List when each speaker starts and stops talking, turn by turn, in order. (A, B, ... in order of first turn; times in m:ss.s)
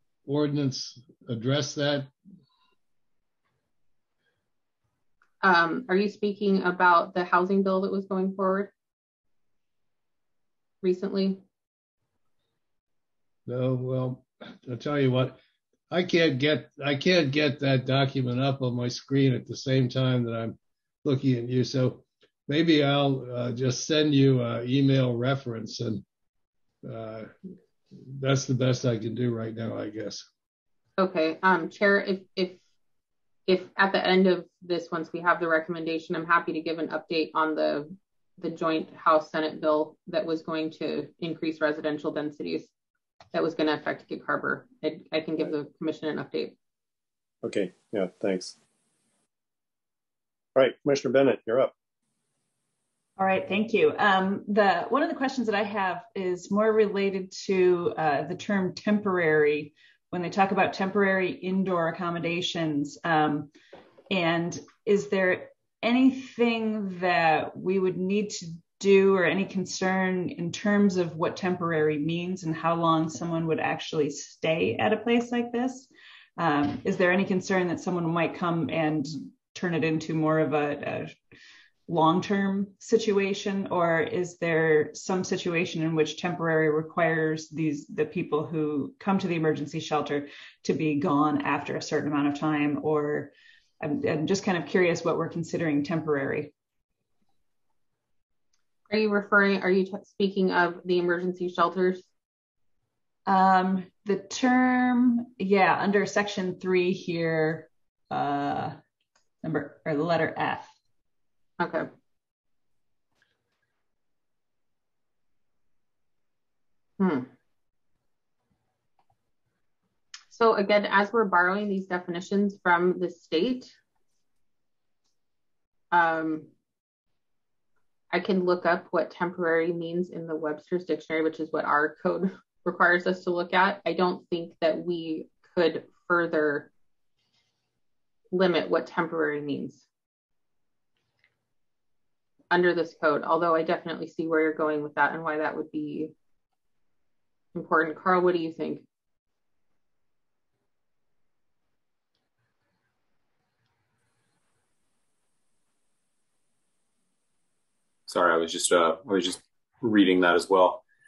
0:00.3-0:02.1 A
0:05.4-0:08.7 B
0:10.8-0:11.4 B
0:13.5-0:15.4 A
0:15.9-0:26.0 A
0:26.8-0:27.3 A
0:28.0-0:30.3 A
0:31.0-0:32.6 B
0:33.5-0:42.7 B
0:43.3-0:46.6 B
0:47.4-0:48.6 C
0:50.6-0:51.7 C
0:53.2-1:03.5 D
1:04.1-1:21.2 D
1:21.9-1:36.5 D
1:38.9-1:42.1 B
1:43.3-1:48.8 D
1:49.4-1:50.8 D
1:51.6-1:51.9 B
1:57.0-1:57.3 B
2:00.3-2:03.8 B
2:05.9-2:06.5 B
2:08.1-2:16.7 B
2:18.3-2:19.9 B
2:22.5-2:26.1 B
2:27.6-2:28.8 B
2:38.1-2:40.8 E